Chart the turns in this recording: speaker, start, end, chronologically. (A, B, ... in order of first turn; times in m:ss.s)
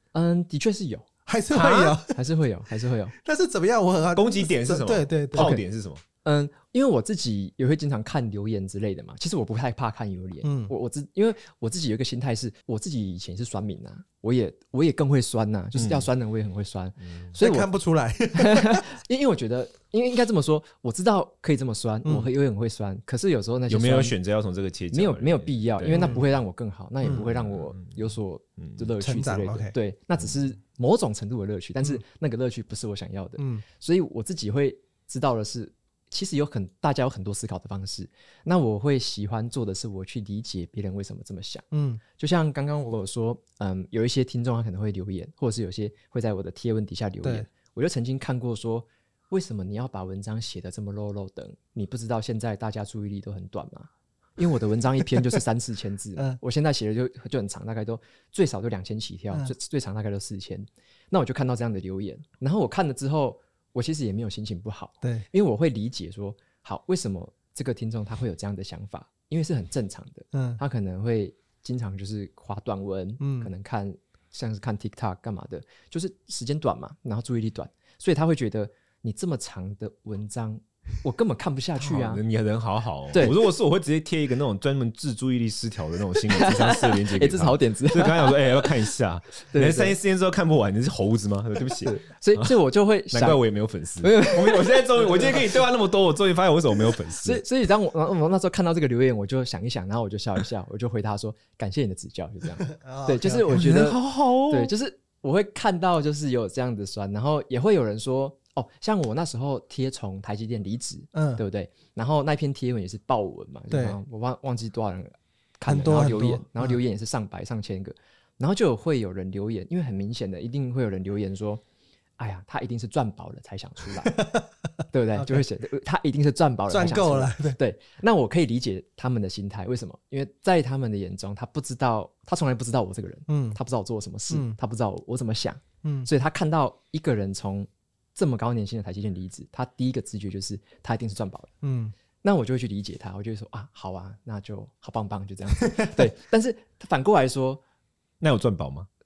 0:00.1-0:01.1 A
0:01.2-0:02.2 B
0:01.5-0:02.0 C
0:02.1-0:03.1 A
0:03.2-0:05.6 B
0:04.2-0:06.0 C
0:05.3-0:05.6 A
0:06.2-0:17.7 A
0:10.4-0:10.7 B
0:15.7-0:16.1 C
0:17.0-0:17.3 C
0:17.4-0:18.8 B
0:18.4-0:24.1 A
0:22.0-0:22.3 B
0:23.7-0:26.3 C
0:24.9-0:41.6 A
0:25.9-0:26.2 B
0:27.1-0:28.9 C
0:29.0-0:29.7 B
0:33.4-0:33.6 B
0:41.7-0:42.0 B
0:42.2-1:22.2 A
0:47.2-0:47.5 B
0:55.0-0:55.4 B
1:10.3-1:10.6 B
1:13.2-1:13.5 B
1:21.8-1:32.5 C
1:26.3-1:28.9 A
1:29.5-1:29.9 A
1:31.8-1:33.4 A
1:33.1-1:37.4 C
1:34.0-1:35.5 A
1:37.2-2:01.6 A
1:42.7-1:43.9 B
1:43.5-1:44.7 C
1:51.1-1:51.4 B
1:53.7-1:54.0 B
1:55.6-1:56.8 B
2:02.2-2:04.2 A
2:04.1-2:04.5 B
2:04.9-2:21.5 A
2:05.2-2:05.4 B
2:06.7-2:07.6 B
2:13.3-2:13.6 B
2:14.3-2:14.6 B
2:21.6-2:21.9 B
2:22.2-2:27.6 A
2:25.6-2:26.1 B
2:28.2-2:28.9 C